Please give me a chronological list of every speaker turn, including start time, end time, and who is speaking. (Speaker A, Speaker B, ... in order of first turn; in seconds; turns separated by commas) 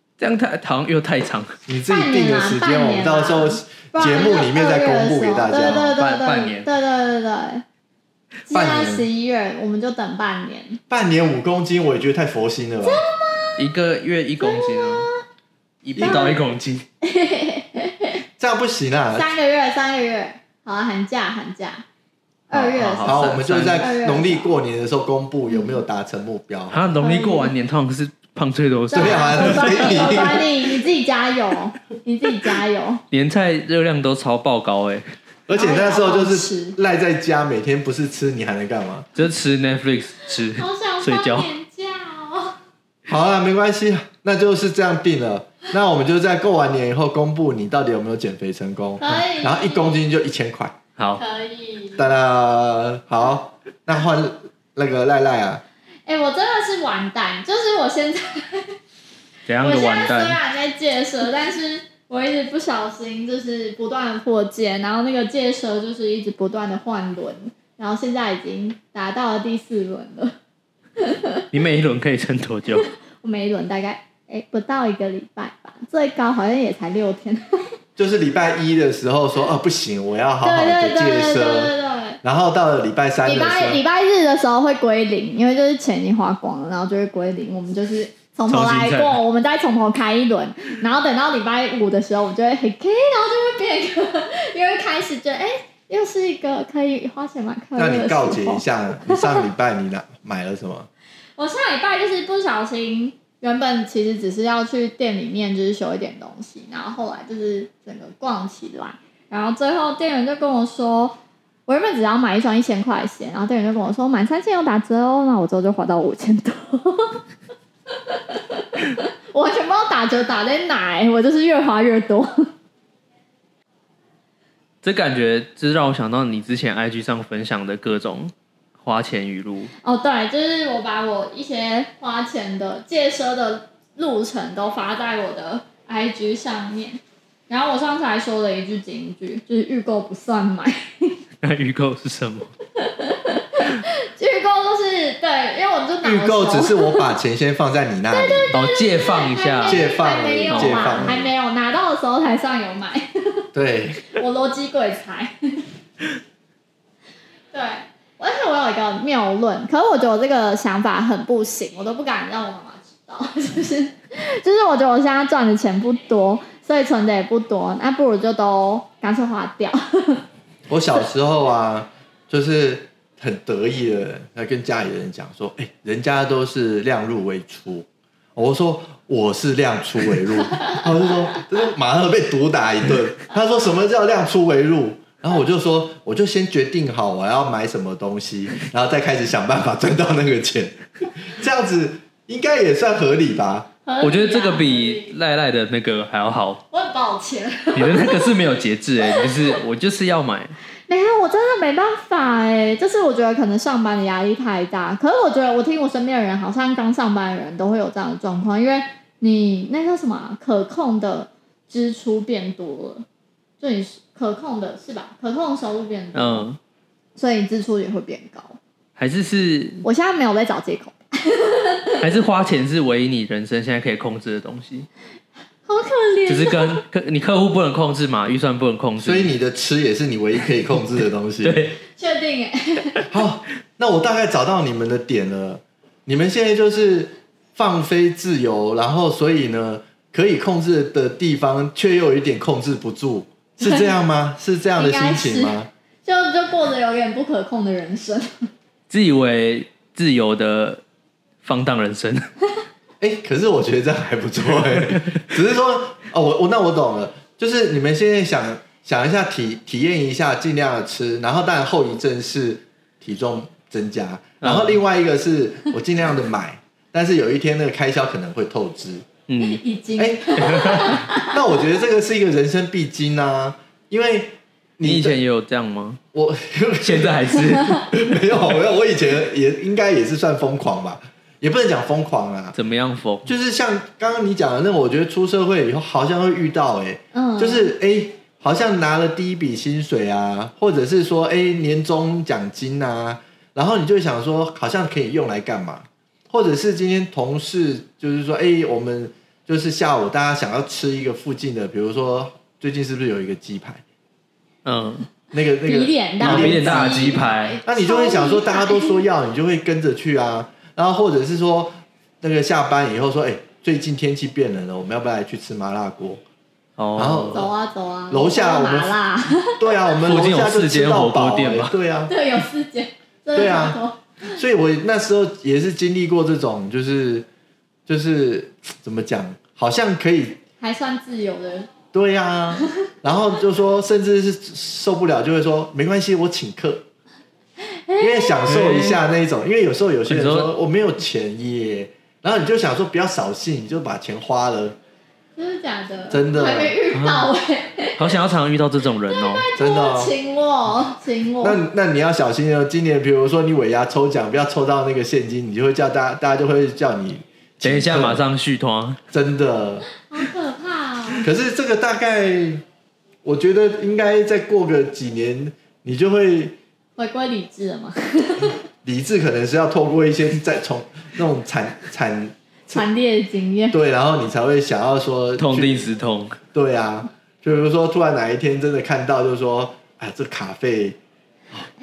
Speaker A: 0.2-1.6, Speaker B: 1.7-5.9, Speaker C: 1.9-7.6, Speaker A: 5.7-6.7, Speaker C: 8.5-10.8, Speaker B: 8.5-9.1, Speaker B: 10.9-13.0, Speaker C: 12.8-13.7, Speaker A: 13.6-15.1, Speaker C: 14.4-15.2, Speaker A: 15.8-16.9, Speaker B: 16.0-16.3, Speaker C: 16.0-16.4, Speaker C: 17.0-18.2, Speaker B: 18.4-19.3, Speaker C: 19.1-21.9, Speaker C: 22.5-24.5, Speaker A: 22.5-23.9, Speaker B: 23.0-26.9, Speaker C: 25.5-25.8, Speaker A: 26.7-30.3, Speaker C: 27.0-27.5, Speaker C: 28.9-33.0, Speaker B: 28.9-30.5, Speaker A: 33.1-35.1, Speaker B: 35.5-39.1, Speaker C: 35.5-36.8, Speaker A: 39.1-41.5, Speaker C: 40.6-42.6, Speaker B: 43.1-50.8, Speaker C: 49.0-50.0, Speaker C: 51.2-52.1, Speaker B: 52.0-55.6, Speaker C: 56.1-58.7, Speaker A: 59.5-60.4, Speaker C: 59.6-70.3, Speaker C: 71.0-71.5, Speaker A: 71.5-72.9, Speaker C: 72.8-77.6, Speaker B: 78.0-83.8, Speaker C: 80.4-82.2, Speaker C: 83.2-99.4, Speaker A: 88.5-89.2, Speaker B: 97.8-100.9, Speaker C: 101.4-117.2, Speaker C: 118.1-122.5, Speaker A: 124.8-129.7, Speaker C: 129.8-141.2, Speaker A: 141.4-142.5, Speaker C: 142.8-147.1, Speaker B: 146.0-148.5, Speaker C: 148.1-153.4, Speaker A: 148.5-149.8, Speaker B: 149.7-151.3, Speaker A: 150.5-151.1, Speaker B: 153.5-154.0, Speaker C: 154.1-155.3, Speaker C: 157.5-170.2, Speaker B: 170.7-193.7, Speaker C: 193.8-195.1, Speaker A: 194.0-196.6, Speaker C: 196.7-198.3, Speaker A: 197.7-200.6, Speaker C: 200.9-213.1, Speaker C: 213.6-216.5, Speaker A: 216.1-216.6, Speaker C: 217.2-218.6, Speaker A: 219.0-219.8, Speaker C: 219.8-222.0, Speaker A: 222.0-224.9, Speaker C: 225.7-226.8, Speaker A: 226.3-229.3, Speaker B: 229.0-231.7, Speaker A: 231.4-231.8, Speaker C: 232.0-233.0, Speaker B: 233.1-245.7, Speaker C: 243.6-243.9, Speaker C: 244.8-248.5, Speaker A: 248.9-250.8, Speaker A: 251.4-252.3, Speaker B: 253.0-269.1, Speaker A: 264.4-264.8, Speaker A: 269.3-269.6, Speaker C: 269.4-271.4, Speaker B: 270.0-275.2, Speaker A: 270.4-271.0, Speaker A: 274.8-276.0, Speaker B: 276.1-282.6, Speaker A: 276.8-278.2, Speaker A: 282.6-283.3, Speaker B: 283.2-303.8, Speaker C: 287.1-287.7, Speaker A: 304.6-305.1, Speaker B: 305.3-316.2, Speaker C: 305.7-309.0, Speaker A: 306.2-307.6, Speaker A: 316.8-317.5, Speaker B: 317.0-317.5, Speaker C: 317.3-319.9, Speaker B: 318.1-322.1, Speaker A: 320.1-321.8, Speaker C: 322.1-324.3, Speaker B: 323.3-327.3, Speaker B: 327.9-330.4, Speaker C: 330.6-331.7, Speaker B: 331.9-336.9, Speaker C: 337.6-338.4, Speaker B: 338.0-344.8, Speaker A: 338.5-339.0, Speaker A: 340.1-340.5, Speaker C: 345.4-348.2, Speaker B: 346.1-346.8, Speaker A: 346.9-347.3, Speaker A: 348.0-349.5, Speaker C: 349.1-351.6, Speaker B: 349.6-350.1, Speaker B: 351.4-358.2, Speaker A: 357.6-359.0, Speaker B: 359.1-359.9, Speaker C: 360.0-361.2, Speaker B: 361.2-362.6, Speaker B: 363.2-366.6, Speaker C: 367.0-368.6, Speaker B: 368.8-372.9, Speaker C: 372.7-373.8, Speaker B: 373.7-375.8, Speaker A: 375.4-376.4, Speaker B: 376.5-381.0